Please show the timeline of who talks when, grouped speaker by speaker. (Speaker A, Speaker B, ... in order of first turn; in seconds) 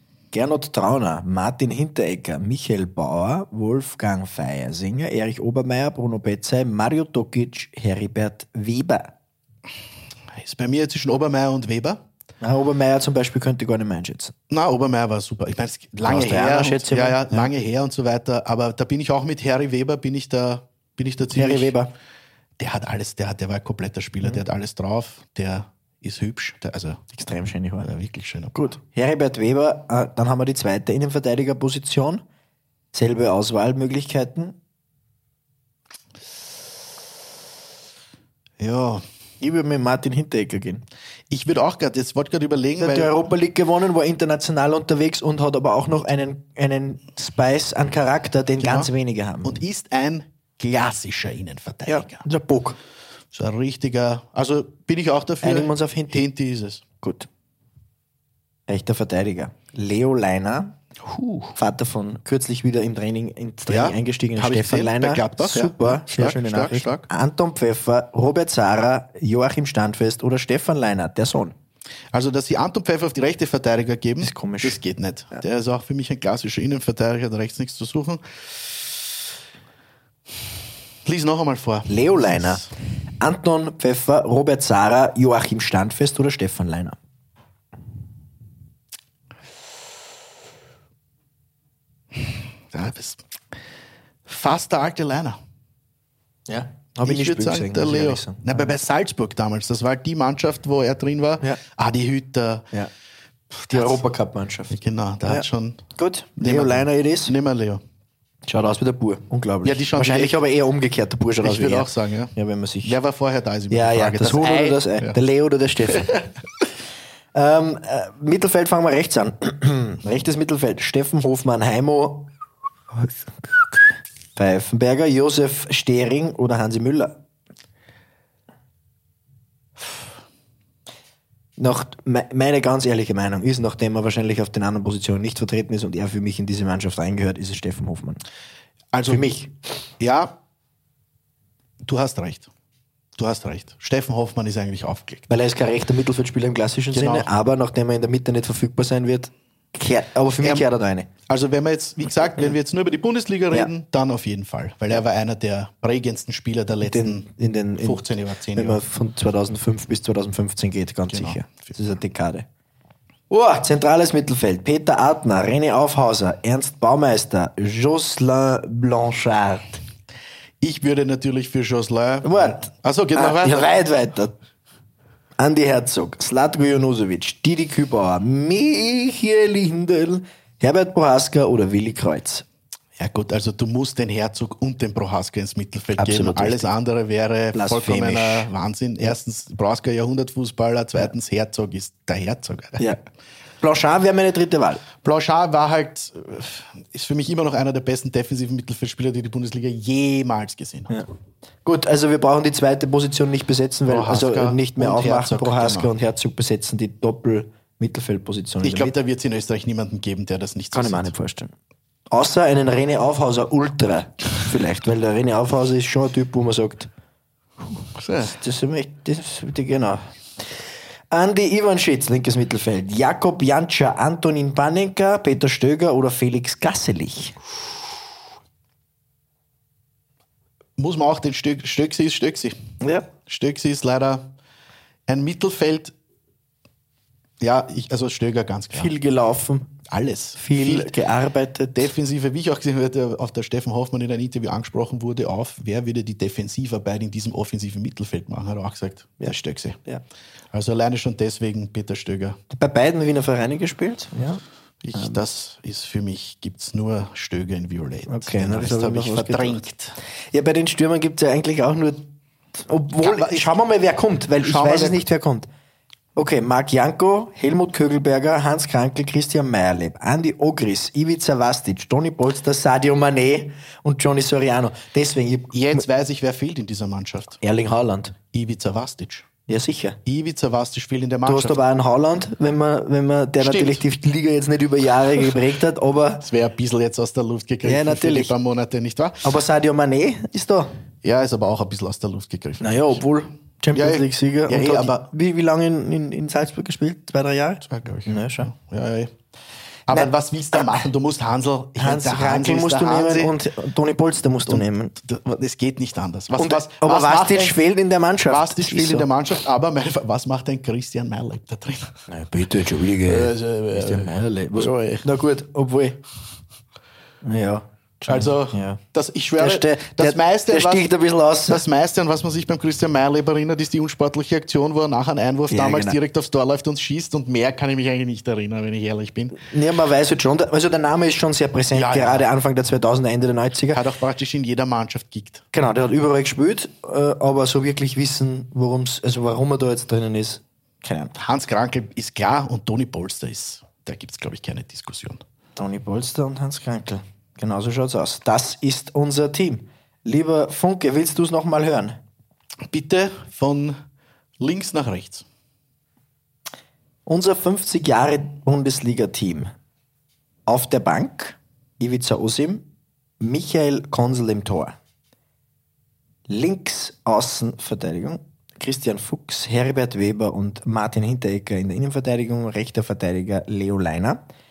Speaker A: 0.3-9.1, 12.4-14.3, 16.0-17.5, 21.3-21.9, 27.1-27.9, 28.5-32.2, 32.9-34.5, 39.4-40.8, 42.8-49.6, 51.9-52.8, 55.4-56.2, 57.0-57.3, 58.7-60.8, 61.5-71.5, 74.2-74.8, 81.9-82.7, 83.2-87.0, 96.5-98.7, 103.5-107.3, 108.5-113.0, 113.7-116.2, 117.3-122.3, 124.3-127.2, 131.6-138.2, 139.0-139.5, 145.3-151.1, 156.8-162.5, 163.3-169.8, 172.2-174.3, 175.4-182.4, 186.0-186.7, 187.5-188.5, 193.6-194.8, 201.6-208.9, 210.7-211.5, 212.1-216.9, 218.2-220.5, 221.1-227.4, 232.8-233.1, 238.7-239.7, 240.4-241.9, 252.5-254.4, 254.9-255.2, 258.1-259.6, 260.3-265.5, 266.1-275.8, 277.4-278.2, 279.5-280.0, 281.2-286.2, 287.6-288.3, 289.2-290.7, 292.6-298.5, 301.8-304.9, 306.4-309.1, 312.1-316.0, 317.2-318.8, 319.4-321.6, 325.5-326.0, 329.4-333.8, 335.5-341.1, 345.6-352.0, 357.1-359.5, 360.4-362.6, 363.2-364.8, 366.3-374.2
Speaker B: 10.3-12.0, 14.5-21.7, 22.6-27.0, 27.8-28.5, 38.6-39.0, 41.3-43.1, 48.6-48.9, 49.4-52.2, 53.3-56.8, 61.0-61.5, 63.7-67.0, 72.1-78.4, 81.0-82.7, 92.7-93.2, 94.2-95.4, 97.0-102.7, 103.7-104.0, 104.7-105.8, 106.4-107.8, 109.6-110.4, 111.4-115.2, 115.9-116.2, 138.9-139.3, 140.0-140.3, 141.8-142.5, 143.2-145.3, 146.9-147.3, 150.4-150.7, 151.3-158.8, 161.1-161.7, 170.6-173.7, 183.0-192.9, 195.0-200.9, 203.9-205.9, 208.6-211.1, 217.9-218.3, 230.8-232.6, 233.2-234.3, 235.1-235.9, 237.4-238.9, 239.9-241.0, 241.8-249.8, 250.5-252.4, 254.8-259.9, 263.0-263.5, 264.4-265.0, 275.5-277.4, 278.3-279.3, 280.1-281.6, 283.4-283.8, 286.2-289.3, 291.0-293.0, 293.7-295.1, 297.7-299.1, 299.9-303.3, 304.5-307.6, 308.3-312.0, 313.0-315.1, 318.1-320.9, 321.5-329.4, 331.7-332.2, 333.7-335.4, 341.2-345.2, 352.7-353.8, 354.4-355.2